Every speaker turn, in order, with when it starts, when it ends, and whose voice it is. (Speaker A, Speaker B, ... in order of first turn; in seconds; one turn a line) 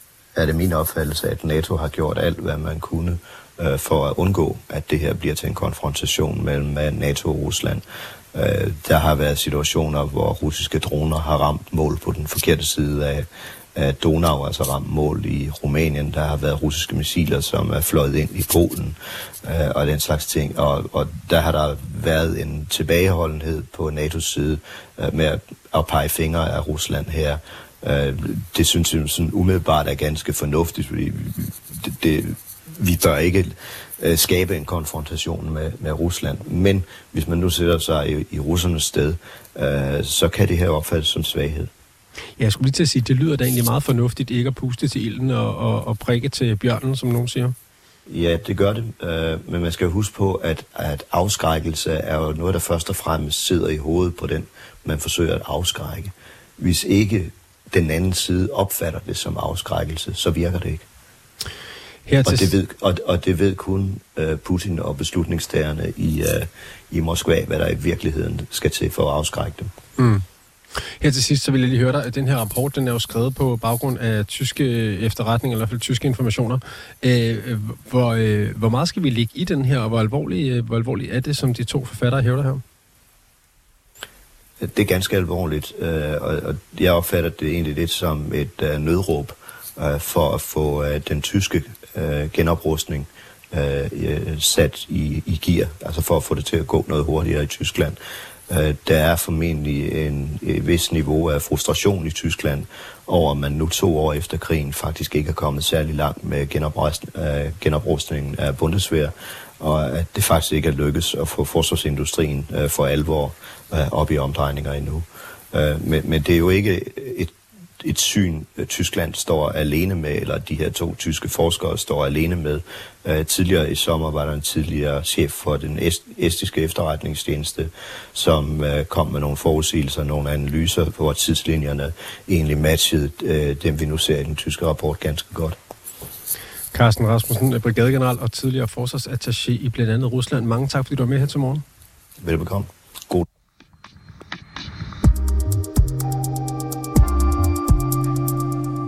Speaker A: 0.3-41.7
Speaker B: 42.4-47.5
Speaker A: 48.1-60.9
Speaker B: 62.1-62.5
Speaker A: 62.2-69.7
Speaker B: 70.0-70.2
Speaker B: 70.8-82.6
Speaker A: 84.6-98.0
Speaker A: 98.5-135.6
Speaker B: 136.7-141.6
Speaker A: 142.2-143.3